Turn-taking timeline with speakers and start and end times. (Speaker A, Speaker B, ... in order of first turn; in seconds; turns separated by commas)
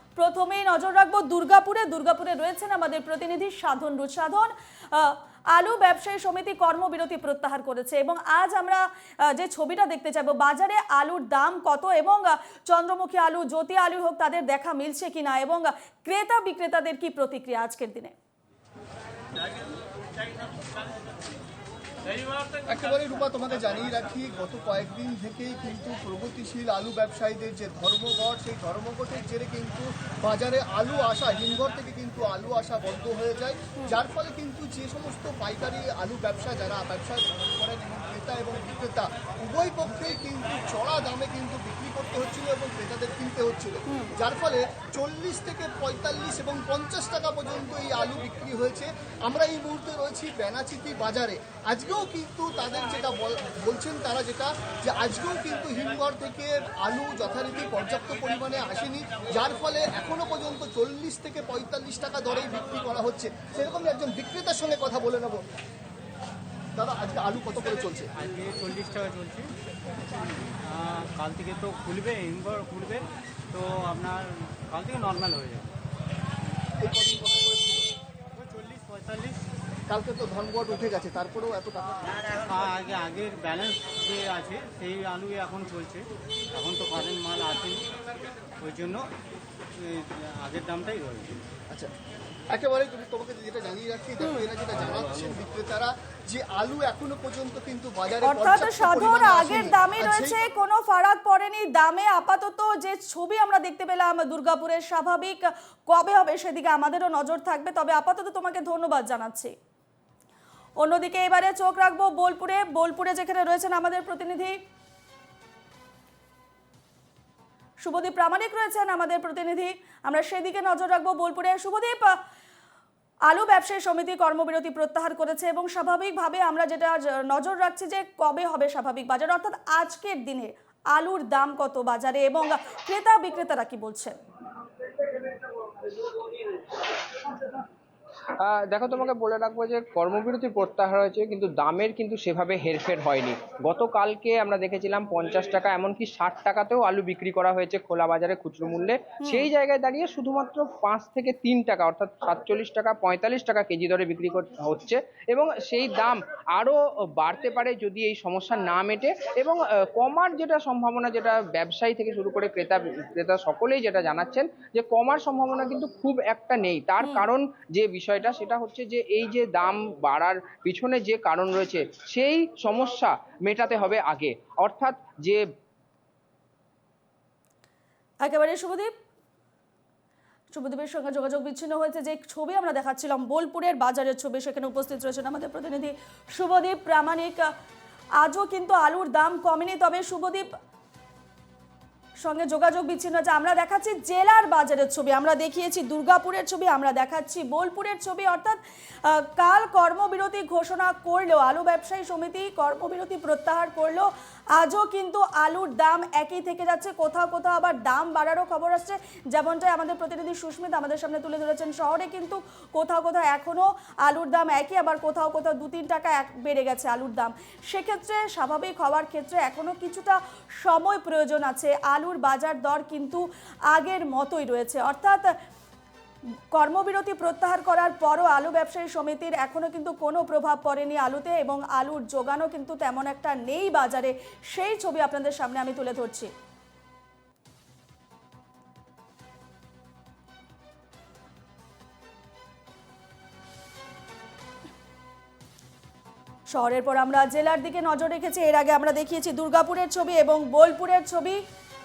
Speaker A: 0.2-18.1, Speaker B: 22.6-65.4, Speaker A: 43.9-44.1, Speaker B: 66.8-68.1, Speaker C: 68.2-69.5, Speaker C: 70.6-75.7, Speaker B: 76.8-77.9, Speaker C: 78.3-79.4, Speaker B: 79.9-82.2, Speaker C: 82.4-87.8, Speaker C: 88.6-89.0, Speaker C: 89.8-91.4, Speaker B: 92.5-100.4, Speaker A: 94.2-94.5, Speaker C: 94.8-95.3, Speaker A: 98.2-109.5, Speaker A: 110.8-114.6, Speaker A: 117.8-122.2, Speaker A: 123.3-134.2, Speaker D: 135.2-137.6, Speaker D: 138.4-175.4, Speaker A: 149.2-149.5, Speaker A: 167.0-167.3, Speaker A: 178.2-178.9, Speaker A: 180.5-187.4, Speaker A: 188.2-190.5, Speaker A: 192.2-225.3, Speaker A: 226.5-236.3, Speaker A: 246.5-251.4